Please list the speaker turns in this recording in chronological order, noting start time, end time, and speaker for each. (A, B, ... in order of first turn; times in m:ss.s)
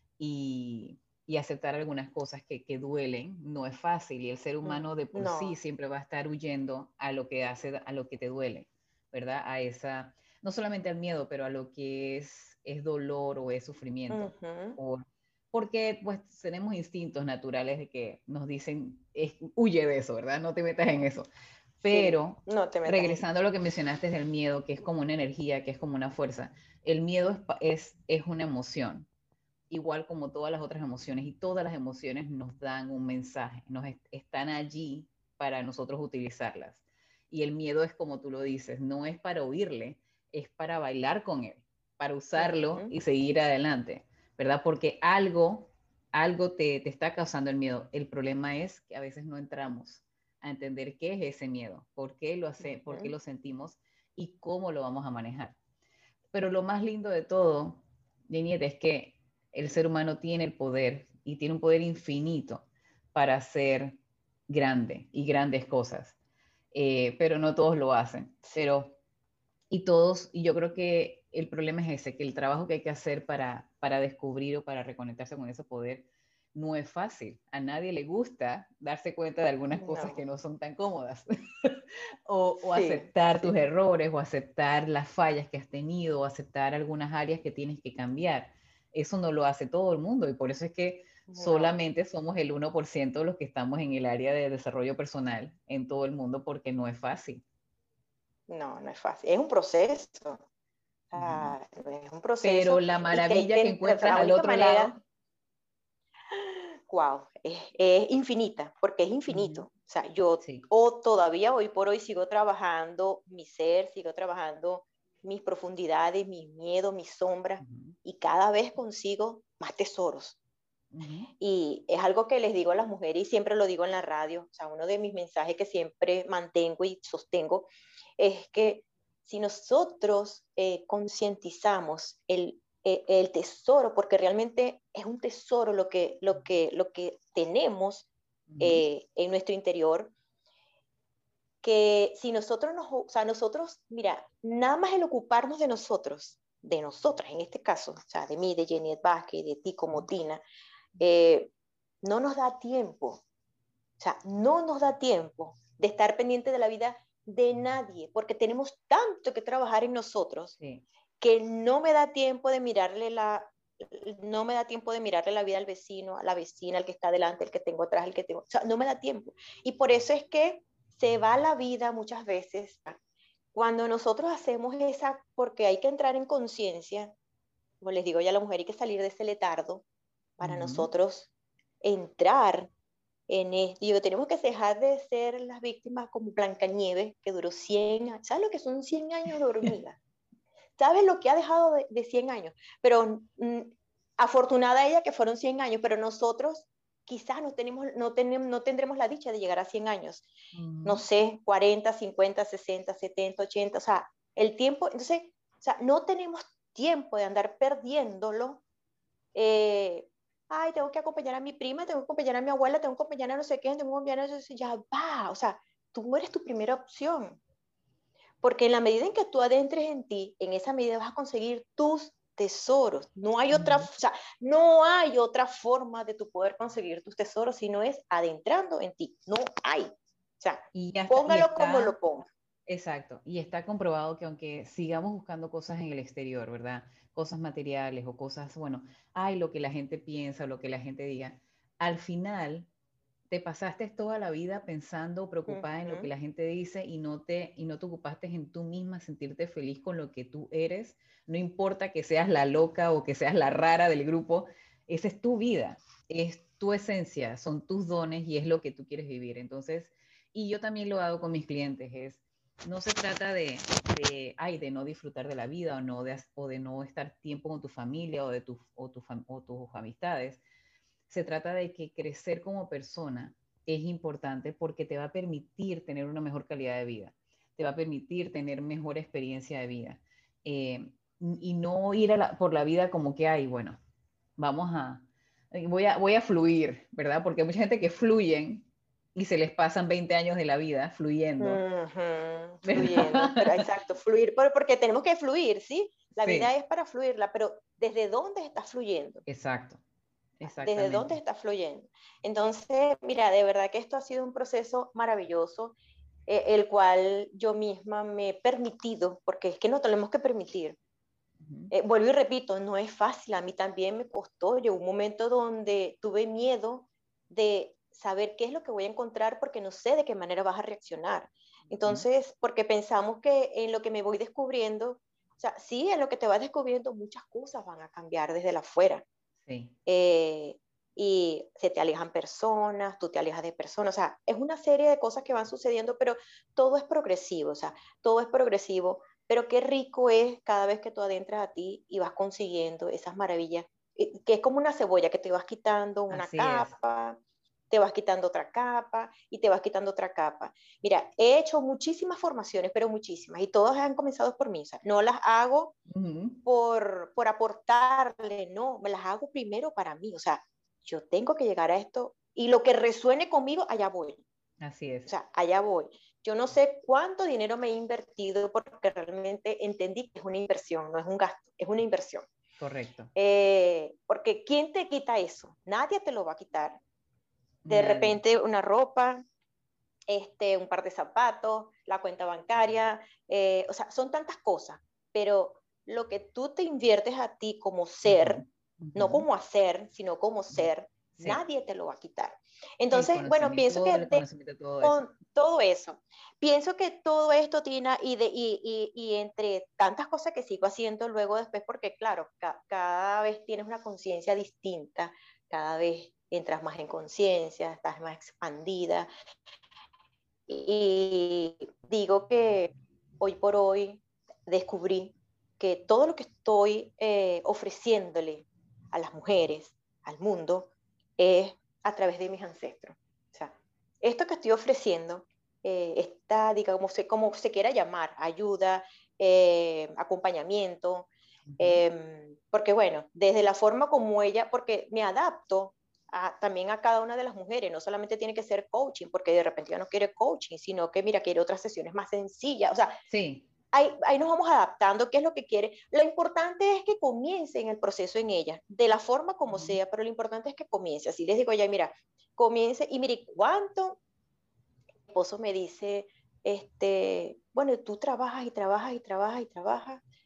0:00.2-0:21.3 A
0:04.6-0:05.6 B
0:14.1-0:14.8 B
0:21.8-0:29.1 A
0:21.9-0:23.2 B
0:29.7-0:55.6 A
0:42.3-0:43.0 B
0:52.6-0:53.1 B
0:56.3-1:06.1 A
1:06.7-1:09.0 A
1:09.7-1:37.4 A
1:19.7-1:20.2 B
1:22.7-1:23.5 B
1:31.3-1:31.8 B
1:38.5-1:40.4 B
1:41.1-1:45.0 B
1:41.2-1:41.6 A
1:42.4-1:45.0 A
1:46.3-2:00.4 B
1:49.3-1:49.7 A
1:50.4-1:50.7 A
1:57.6-1:58.0 A
2:00.9-2:01.3 A
2:01.4-2:20.1 B
2:18.5-2:18.8 A
2:21.6-2:30.4 B
2:31.0-2:31.5 B
2:32.0-2:33.2 B
2:34.0-2:40.6 B
2:40.6-2:40.8 A
2:41.2-2:53.0 B
2:53.5-2:57.1 B
2:57.8-2:59.8 B
3:00.4-3:01.3 B
3:00.4-3:00.9 A
3:01.8-3:02.7 B
3:03.3-3:10.0 B
3:10.8-3:20.3 B
3:20.5-3:21.0 A
3:20.8-3:28.6 B
3:29.3-3:37.4 B
3:38.4-3:52.2 B
3:43.5-3:43.9 A
3:50.7-3:51.9 A
3:52.7-4:02.7 A
4:03.3-4:30.4 A
4:05.5-4:06.1 B
4:31.1-4:43.8 A
4:44.4-4:51.6 A
4:51.4-4:59.2 B
4:52.6-4:53.6 A
4:56.2-4:56.5 A
4:59.3-4:59.8 A
5:00.4-5:01.2 A
5:00.4-5:05.7 B
5:06.3-5:10.8 B
5:11.4-5:11.7 A
5:11.7-5:29.0 B
5:21.7-5:22.0 A
5:29.4-5:29.7 A
5:29.8-5:47.2 B
5:46.1-5:46.8 A
5:47.7-5:55.7 B
5:55.9-5:56.4 A
5:56.4-6:04.2 B
6:04.6-6:05.1 A
6:05.0-6:12.3 B
6:12.6-6:13.1 A
6:13.1-6:16.8 B
6:17.6-6:18.2 A
6:17.7-6:19.2 B
6:20.1-6:28.4 B
6:28.0-6:29.2 A
6:28.9-6:34.2 B
6:30.5-6:31.4 A
6:32.9-6:35.0 A
6:34.8-6:49.1 B
6:50.5-7:23.0 B
7:11.5-7:11.8 A
7:23.1-7:23.5 A
7:23.7-7:34.0 B
7:29.5-7:29.8 A
7:35.1-7:40.0 B